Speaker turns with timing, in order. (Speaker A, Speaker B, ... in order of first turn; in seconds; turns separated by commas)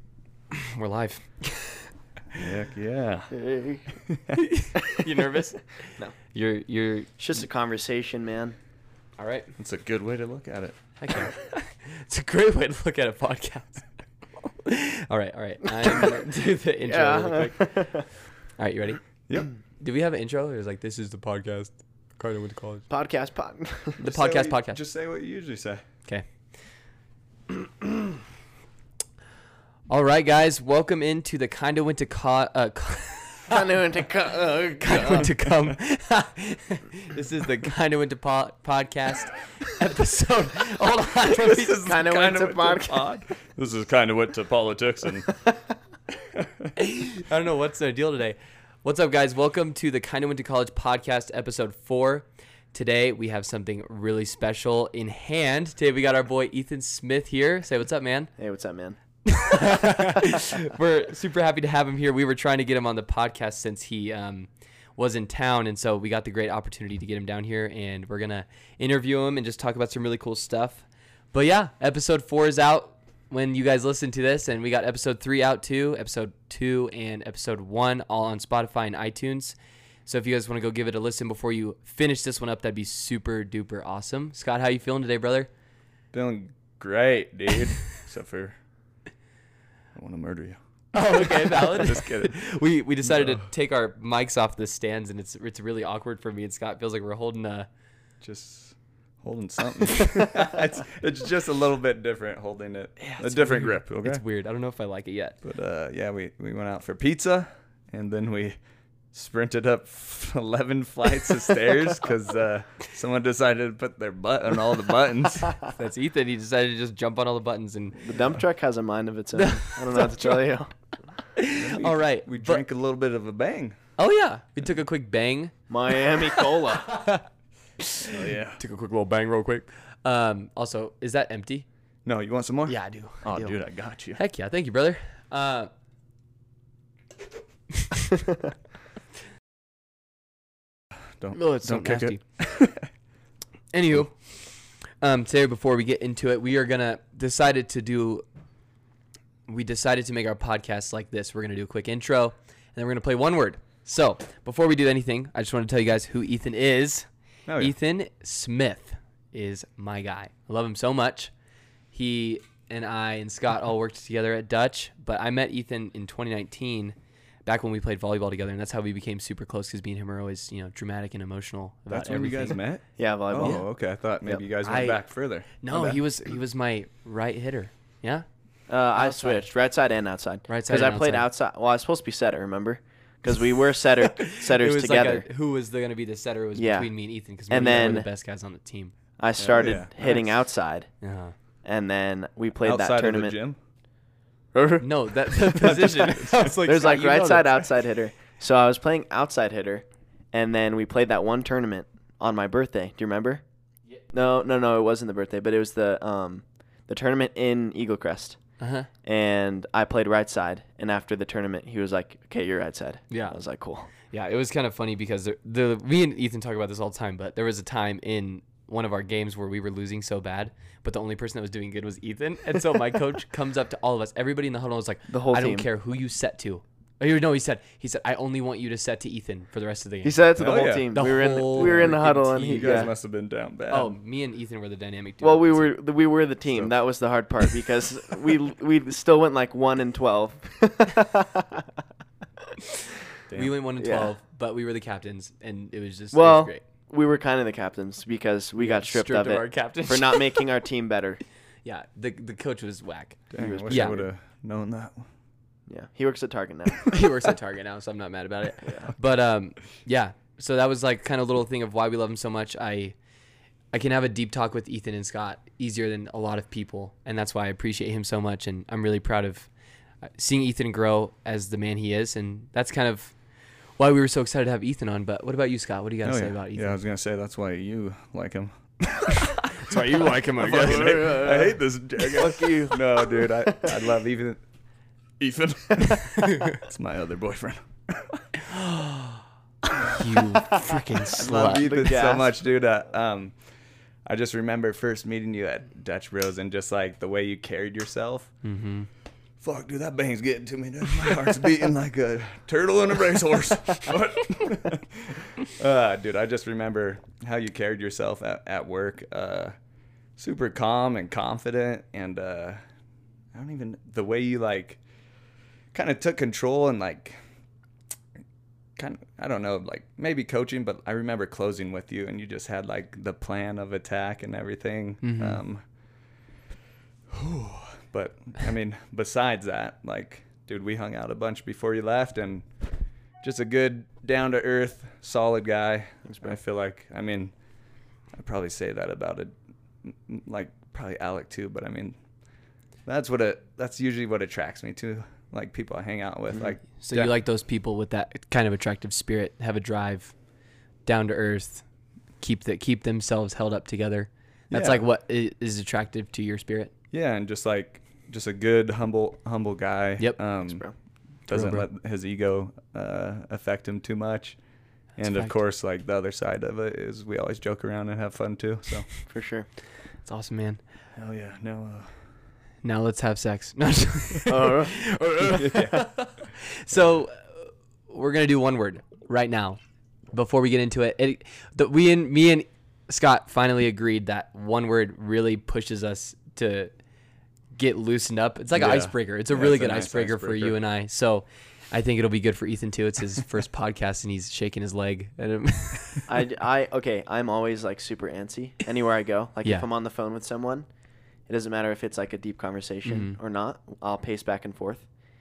Speaker A: 0.5-2.4, Speaker B: 2.3-3.3, Speaker C: 3.3-4.0, Speaker B: 4.0-4.4, Speaker A: 4.4-7.1, Speaker C: 7.2-8.6, Speaker A: 9.2-9.5, Speaker B: 9.6-10.8, Speaker A: 11.0-13.8, Speaker A: 14.5-17.6, Speaker C: 16.8-18.1, Speaker A: 18.6-19.1, Speaker A: 19.8-22.8, Speaker C: 22.9-24.0, Speaker A: 24.0-24.8, Speaker B: 24.0-25.8, Speaker A: 27.5-28.1, Speaker A: 29.9-33.6, Speaker C: 33.5-35.3, Speaker A: 34.8-41.8, Speaker B: 41.3-45.4, Speaker C: 41.8-43.1, Speaker B: 46.4-46.7, Speaker A: 46.8-58.3, Speaker C: 58.4-59.0, Speaker A: 59.2-85.5, Speaker B: 86.1-88.6, Speaker B: 89.9-92.4, Speaker A: 90.9-97.7, Speaker B: 93.0-93.4, Speaker B: 98.2-104.2, Speaker A: 103.0-105.4, Speaker B: 105.4-108.6, Speaker B: 109.1-115.6, Speaker A: 115.7-118.1, Speaker C: 118.0-120.7, Speaker A: 119.3-120.3, Speaker A: 121.3-122.6, Speaker B: 121.6-123.8, Speaker A: 124.0-127.2, Speaker C: 125.7-126.9, Speaker A: 127.8-131.7, Speaker B: 128.0-128.6, Speaker B: 132.0-134.2, Speaker A: 132.7-133.6, Speaker A: 134.1-135.7, Speaker B: 141.2-142.8, Speaker A: 141.3-142.2, Speaker A: 143.7-148.2, Speaker A: 149.5-161.3, Speaker B: 157.5-157.7, Speaker A: 161.9-172.6, Speaker B: 171.9-176.0, Speaker C: 173.0-173.7, Speaker A: 174.6-175.0, Speaker A: 175.5-178.2, Speaker C: 178.7-185.2, Speaker A: 178.9-179.5, Speaker A: 180.5-181.3, Speaker A: 184.1-188.9, Speaker C: 186.6-186.9, Speaker C: 187.5-188.1, Speaker C: 189.2-190.9, Speaker B: 189.4-189.9, Speaker A: 191.0-191.3, Speaker C: 191.6-193.4, Speaker B: 192.6-193.6, Speaker C: 194.5-203.4, Speaker A: 194.8-197.6, Speaker B: 195.7-196.5, Speaker C: 204.1-208.4, Speaker A: 208.6-208.9, Speaker C: 209.0-213.9, Speaker A: 213.1-213.4, Speaker A: 214.1-230.2, Speaker C: 225.1-225.7, Speaker C: 230.0-232.9, Speaker B: 230.4-233.9, Speaker A: 230.9-232.9, Speaker A: 233.7-235.8, Speaker C: 235.2-241.7, Speaker B: 243.3-243.5, Speaker A: 243.3-246.6, Speaker C: 243.8-244.1, Speaker C: 246.1-251.2, Speaker A: 248.6-250.4, Speaker A: 251.6-254.0, Speaker B: 253.3-255.1, Speaker C: 253.4-254.1, Speaker C: 255.7-257.1, Speaker A: 256.9-262.9, Speaker C: 258.6-258.9, Speaker A: 263.7-269.5, Speaker A: 270.0-273.1, Speaker A: 273.8-276.8, Speaker B: 276.0-284.4, Speaker A: 279.5-281.3, Speaker C: 280.4-281.6, Speaker C: 282.1-283.8, Speaker B: 285.2-288.2, Speaker A: 286.1-286.6, Speaker A: 289.9-291.6, Speaker C: 291.1-292.3, Speaker B: 291.2-293.3, Speaker B: 294.1-298.3, Speaker A: 298.4-298.9, Speaker B: 299.4-309.5, Speaker B: 310.2-312.6, Speaker B: 313.3-314.8, Speaker B: 315.7-317.2, Speaker B: 318.8-325.6, Speaker A: 325.0-325.4, Speaker B: 327.1-332.4, Speaker B: 333.2-337.3, Speaker C: 336.0-336.4, Speaker B: 338.1-342.0, Speaker B: 342.9-347.1, Speaker A: 346.8-350.1, Speaker A: 350.8-351.6, Speaker A: 352.2-356.7, Speaker B: 354.5-354.8, Speaker B: 356.9-360.6, Speaker A: 361.3-361.7, Speaker B: 361.3-364.4, Speaker B: 365.0-368.9, Speaker A: 365.0-365.3, Speaker C: 369.1-369.5, Speaker A: 370.0-370.6, Speaker B: 370.9-371.9, Speaker A: 372.6-379.6, Speaker C: 374.3-374.8, Speaker B: 375.3-375.9, Speaker A: 380.1-386.7, Speaker A: 387.5-396.1, Speaker B: 388.5-390.6, Speaker C: 396.1-400.7, Speaker C: 401.3-404.8, Speaker A: 402.8-403.2